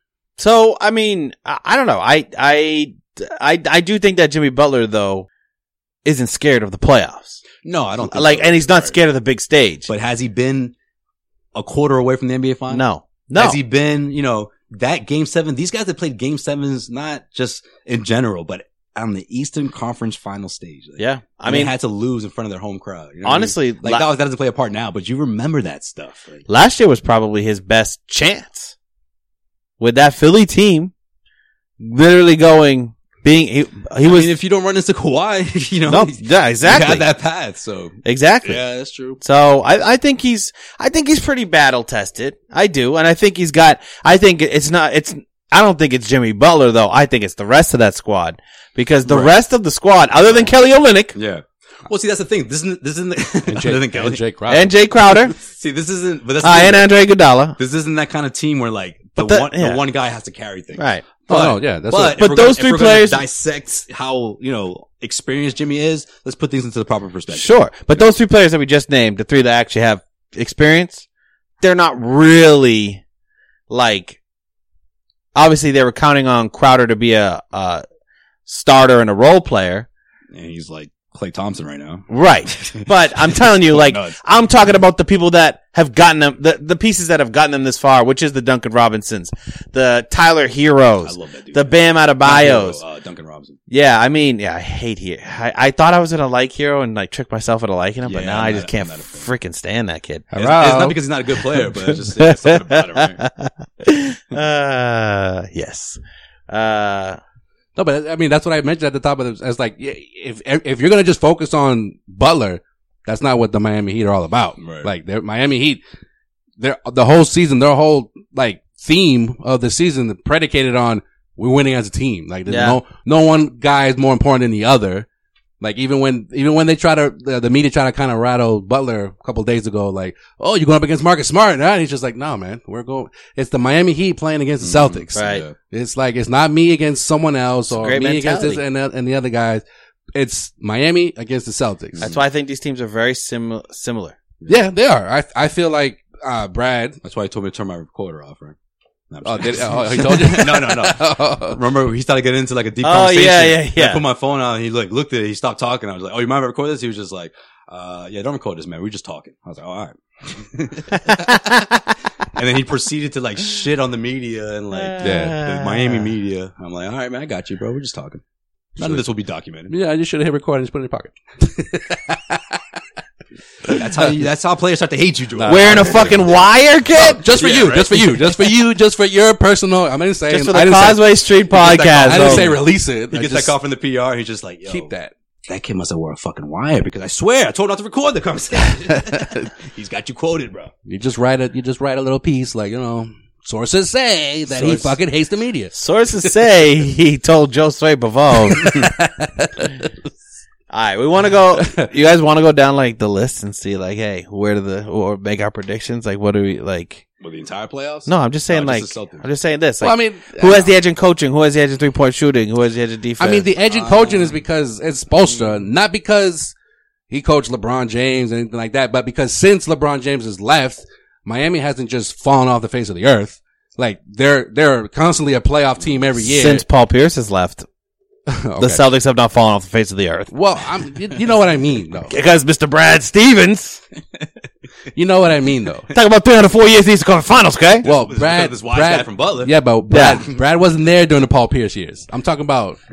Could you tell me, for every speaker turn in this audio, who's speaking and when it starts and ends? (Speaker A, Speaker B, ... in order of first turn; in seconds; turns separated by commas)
Speaker A: 0.4-5.3, Speaker A: 6.0-7.4, Speaker B: 7.6-9.0, Speaker A: 8.0-9.9, Speaker B: 9.9-10.7, Speaker B: 11.5-12.8, Speaker A: 12.7-13.6, Speaker B: 13.3-26.4, Speaker A: 21.0-21.7, Speaker A: 23.2-24.1, Speaker A: 26.5-28.7, Speaker A: 29.8-30.9, Speaker A: 31.8-34.3, Speaker B: 34.0-39.2, Speaker A: 35.9-37.0, Speaker A: 38.0-38.6, Speaker A: 39.2-51.2, Speaker B: 49.0-49.3, Speaker B: 50.3-50.5, Speaker B: 51.1-54.2, Speaker C: 53.5-54.7, Speaker A: 54.5-55.3, Speaker B: 55.3-56.9, Speaker A: 56.4-57.6, Speaker B: 57.6-68.1, Speaker A: 59.2-59.8, Speaker A: 60.8-61.0, Speaker C: 61.3-62.2, Speaker A: 62.1-63.2, Speaker A: 67.3-71.0, Speaker A: 71.6-73.0, Speaker A: 73.7-74.2, Speaker A: 75.3-77.8, Speaker A: 78.5-79.9, Speaker B: 80.3-84.2, Speaker A: 82.1-92.8, Speaker B: 91.0-93.6, Speaker A: 93.7-100.3, Speaker B: 98.0-99.3, Speaker C: 100.3-101.0, Speaker B: 100.3-103.2, Speaker A: 101.6-107.2, Speaker C: 107.8-115.8, Speaker B: 114.6-114.9, Speaker C: 116.6-125.0, Speaker A: 122.5-122.8, Speaker C: 125.6-139.6, Speaker B: 134.6-135.5, Speaker A: 135.1-135.4, Speaker A: 137.7-138.6, Speaker C: 140.1-142.1, Speaker B: 142.0-142.2, Speaker A: 142.0-144.2, Speaker C: 144.5-147.0, Speaker B: 147.0-148.6, Speaker B: 149.1-161.6, Speaker C: 149.2-151.6, Speaker A: 152.8-154.0, Speaker A: 161.0-161.8, Speaker B: 162.3-168.2, Speaker A: 164.7-166.1, Speaker C: 165.0-165.4, Speaker C: 168.8-169.0, Speaker B: 168.8-169.7, Speaker C: 169.7-172.6, Speaker C: 173.6-174.1, Speaker B: 173.7-176.4, Speaker C: 175.3-176.2, Speaker A: 175.5-177.2, Speaker C: 177.0-181.1, Speaker B: 177.2-178.4, Speaker A: 180.3-182.5, Speaker B: 181.5-184.9, Speaker C: 182.0-183.5, Speaker C: 184.7-185.1, Speaker B: 185.5-190.7, Speaker C: 189.1-189.5, Speaker C: 190.8-195.7, Speaker B: 194.6-194.8, Speaker A: 195.7-198.8, Speaker C: 198.5-199.9, Speaker A: 200.7-207.0, Speaker C: 201.6-201.9, Speaker B: 207.2-209.2, Speaker A: 208.1-213.5, Speaker C: 209.8-210.7, Speaker C: 213.2-216.5, Speaker B: 213.7-214.4, Speaker B: 215.3-215.6, Speaker C: 217.1-226.6, Speaker A: 226.2-227.7, Speaker C: 228.3-228.8, Speaker A: 228.6-230.3, Speaker C: 230.3-232.1, Speaker A: 232.1-233.8, Speaker C: 234.9-235.9, Speaker A: 235.9-237.8, Speaker B: 237.8-239.5, Speaker C: 237.8-242.8, Speaker A: 239.9-240.2